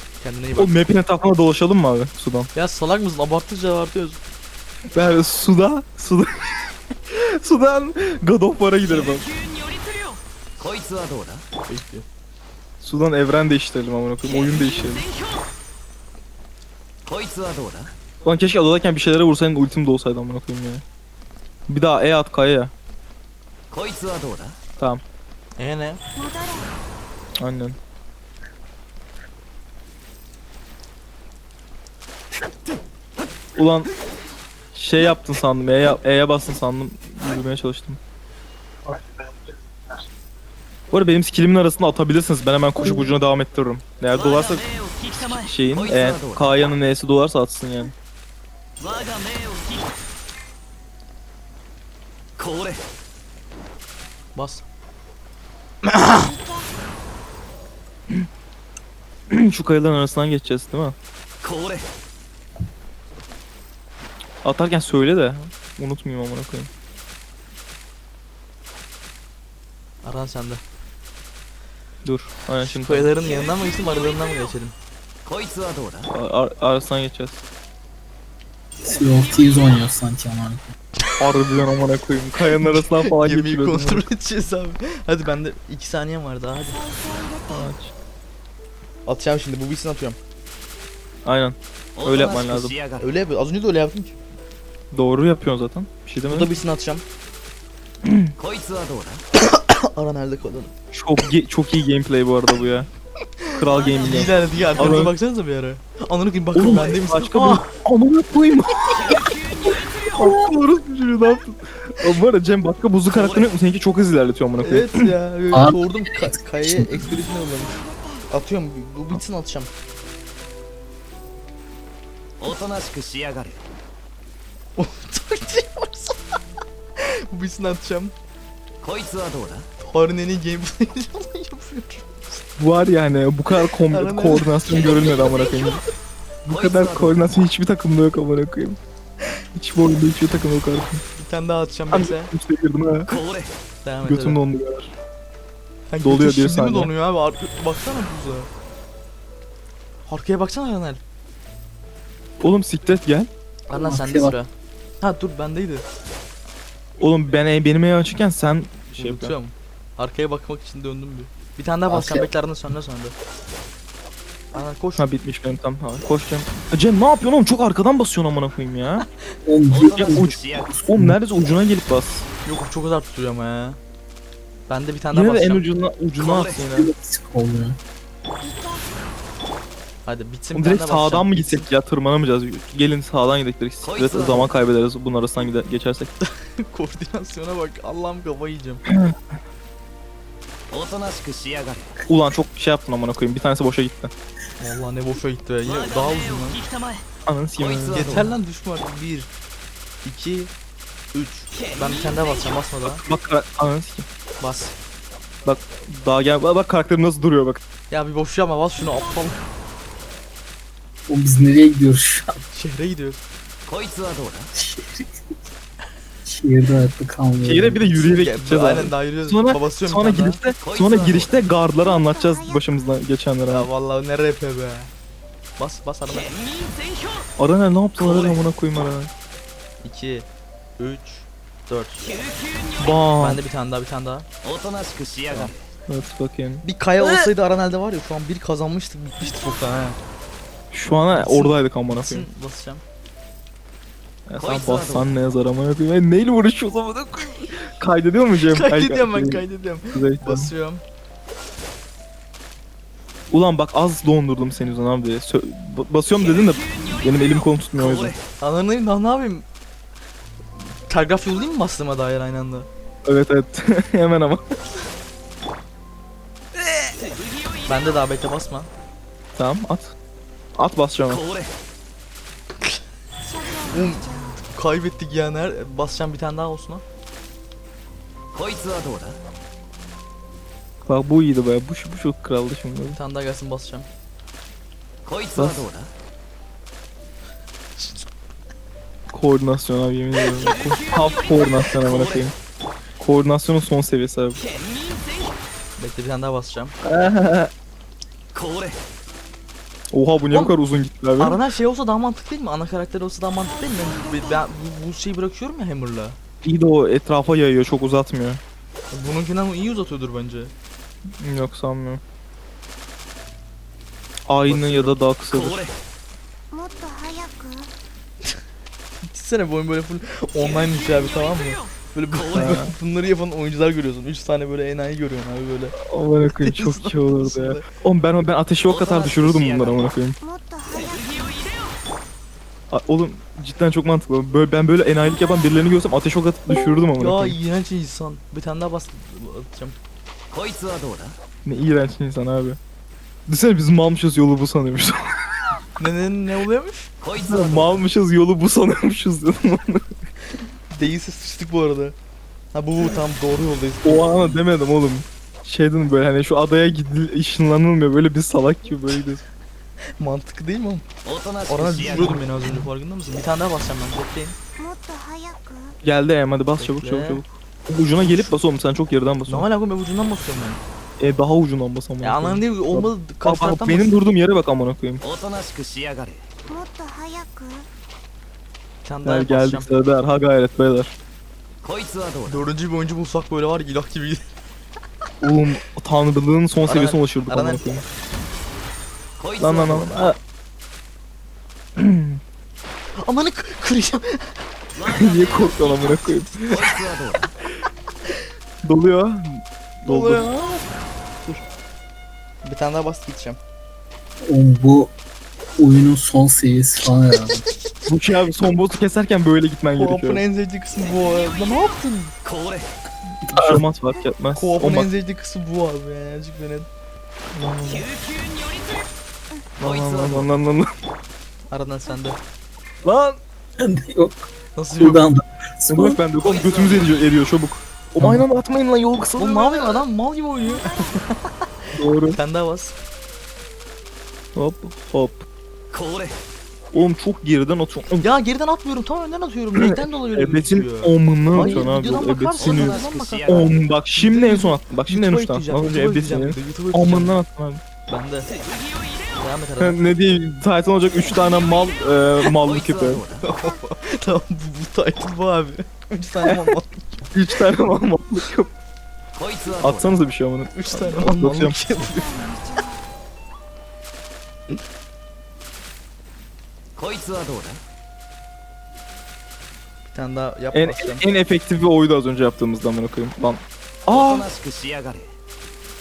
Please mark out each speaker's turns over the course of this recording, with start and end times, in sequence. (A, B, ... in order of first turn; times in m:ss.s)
0:00.2-0:00.8 A
0:00.6-0:02.5 B
0:02.5-0:04.2 A
0:04.9-0:09.3 B
0:10.6-0:11.4 C
0:11.7-0:12.0 A
0:12.8-0:15.1 B
0:17.1-0:17.9 C
0:18.2-0:20.8 B
0:21.7-0:22.7 B
0:23.7-0:24.6 C
0:25.6-0:26.0 A
0:26.2-0:26.7 D
0:27.4-0:27.8 B
0:33.6-0:33.9 B
0:34.7-0:38.0 B
0:40.9-0:47.9 B
0:45.9-0:46.6 C
0:54.4-0:54.6 A
0:55.9-0:56.3 A
0:56.1-0:56.7 D
0:59.3-1:01.0 B
1:04.4-1:06.7 B
1:10.0-1:10.6 A
1:12.0-1:13.1 B
1:12.6-1:14.7 A
1:15.2-1:16.1 C
1:16.1-1:17.4 B
1:18.8-1:20.7 E
1:21.2-1:24.1 B
1:22.6-1:26.8 A
1:26.9-1:27.5 D
1:27.5-1:27.9 B
1:29.1-1:30.2 A
1:31.2-1:32.8 B
1:32.0-1:33.0 C
1:33.0-1:34.2 A
1:34.9-1:36.5 B
1:36.2-1:37.0 A
1:38.0-1:38.4 B
1:38.4-1:39.2 C
1:39.3-1:40.7 A
1:40.9-1:42.9 B
1:43.4-1:47.7 A
1:43.5-1:45.1 B
1:46.5-1:55.1 B
1:54.6-1:59.7 A
1:55.5-1:57.2 E
2:02.4-2:03.6 C
2:04.8-2:06.2 A
2:07.0-2:08.2 A
2:08.8-2:09.7 C
2:09.8-2:12.5 A
2:12.6-2:15.8 B
2:13.9-2:15.8 A
2:16.4-2:18.8 B
2:19.5-2:21.0 B
2:21.2-2:22.3 A
2:21.9-2:23.1 B
2:23.1-2:23.5 C
2:23.8-2:24.4 A
2:24.0-2:24.9 B
2:25.9-2:28.5 A
2:26.0-2:26.9 B
2:30.1-2:31.0 A
2:32.4-2:33.3 B
2:33.7-2:34.5 A
2:33.7-2:34.3 E
2:35.0-2:35.8 A
2:37.0-2:39.4 B
2:39.0-2:43.2 A
2:41.9-2:42.3 E
2:44.5-2:45.0 A
2:45.0-2:49.1 B
2:49.4-2:51.2 E
2:49.7-2:50.7 C
2:49.8-2:52.3 B
2:52.4-2:53.8 A
2:54.7-2:55.7 A
2:55.1-2:56.9 B
2:56.6-2:57.8 E
2:58.4-2:58.8 D
3:00.0-3:01.7 A
3:00.5-3:06.1 B
3:06.2-3:08.8 A
3:08.9-3:09.2 B
3:10.7-3:11.9 C
3:12.1-3:14.1 B
3:14.6-3:16.6 A
3:17.3-3:18.3 B
3:17.8-3:18.2 C
3:17.9-3:19.3 A
3:20.0-3:20.5 A
3:21.1-3:23.0 A
3:22.9-3:24.1 B
3:24.4-3:24.7 A
3:25.4-3:27.6 B
3:27.9-3:29.4 A
3:31.1-3:32.4 E
3:32.5-3:33.2 A
3:33.7-3:34.5 C
3:34.6-3:35.2 E
3:36.3-3:38.0 E
3:37.4-3:43.7 B
3:38.0-3:40.4 A
3:43.5-3:44.9 A
3:45.6-3:46.3 A
3:47.4-3:49.1 B
3:49.8-3:50.3 A
3:50.8-3:52.1 A
3:52.8-3:53.4 B
3:53.2-3:54.3 A
3:54.4-3:55.5 C
3:55.9-3:56.6 B
3:56.6-4:00.0 A
4:00.7-4:02.3 B
4:01.1-4:02.8 A
4:04.3-4:10.5 B
4:04.4-4:05.1 C
4:08.4-4:10.8 A
4:13.3-4:18.2 B
4:18.4-4:19.4 A
4:20.9-4:22.7 A
4:23.0-4:24.5 B
4:27.7-4:28.7 A
4:29.4-4:29.9 B
4:30.6-4:31.2 B
4:33.2-4:34.4 D
4:33.6-4:36.8 A
4:38.3-4:39.2 C
4:40.8-4:43.0 B
4:42.9-4:43.9 A
4:45.2-4:45.9 C
4:45.4-4:45.7 B
4:49.1-4:52.3 B
4:53.0-4:54.4 B
4:55.8-4:56.8 A
4:56.8-4:57.5 B
4:59.9-5:01.4 B
5:01.2-5:06.2 A
5:06.4-5:08.4 B
5:08.9-5:10.5 A
5:11.2-5:12.0 B
5:14.3-5:15.7 B
5:14.5-5:14.9 A
5:16.5-5:17.7 D
5:19.0-5:25.8 A
5:22.2-5:22.7 B
5:25.8-5:30.2 B
5:26.3-5:27.7 A
5:28.7-5:29.8 C
5:30.2-5:31.5 D
5:32.7-5:37.4 B
5:37.0-5:39.8 A
5:40.3-5:41.2 C
5:41.4-5:42.6 B
5:43.3-5:45.4 B
5:45.8-5:47.8 A
5:47.1-5:49.9 B
5:50.7-5:52.0 A
5:52.5-5:54.4 A
5:53.8-5:59.2 B
6:00.0-6:00.9 A
6:01.1-6:02.2 C
6:01.5-6:04.4 A
6:04.6-6:05.7 D
6:05.8-6:09.5 B
6:06.6-6:07.2 A
6:08.0-6:08.4 A
6:09.3-6:10.6 A
6:11.0-6:15.0 B
6:12.0-6:13.9 A
6:15.0-6:16.2 C
6:16.5-6:17.7 D
6:18.8-6:19.7 A
6:19.0-6:20.9 B
6:21.6-6:22.4 C
6:22.3-6:24.2 A
6:25.2-6:27.8 B
6:26.6-6:27.6 A
6:29.4-6:30.2 B
6:29.4-6:30.0 A
6:31.8-6:32.2 B
6:33.0-6:34.4 A
6:34.8-6:36.5 B
6:35.0-6:35.7 C
6:36.5-6:37.3 C
6:38.6-6:40.2 B
6:39.8-6:40.7 A
6:42.4-6:43.4 A
6:44.2-6:44.9 E
6:45.6-6:47.5 E
6:47.9-6:50.2 B
6:49.8-6:52.1 A
6:53.2-6:53.6 E
6:53.3-6:54.9 B
6:54.3-6:56.7 A
6:57.3-6:57.9 B
6:59.6-7:00.7 B
7:01.5-7:02.2 A
7:02.8-7:03.2 B
7:03.6-7:06.0 E
7:04.6-7:05.1 A
7:05.7-7:09.8 B
7:08.0-7:08.3 E
7:09.2-7:12.8 A
7:11.8-7:12.2 B
7:14.4-7:15.3 B
7:15.7-7:16.1 C
7:16.7-7:18.1 B
7:18.0-7:27.2 A
7:19.6-7:27.6 B
7:21.4-7:21.7 E
7:23.0-7:23.3 C
7:27.9-7:28.3 A
7:29.2-7:29.8 A
7:29.6-7:33.0 B
7:32.5-7:33.2 C
7:33.2-7:37.1 A
7:37.1-7:38.5 B
7:39.2-7:39.9 C
7:39.6-7:41.6 B
7:40.5-7:42.3 A
7:46.8-7:47.6 C
7:49.9-7:51.0 A
7:50.5-7:54.3 B
7:53.9-7:55.1 C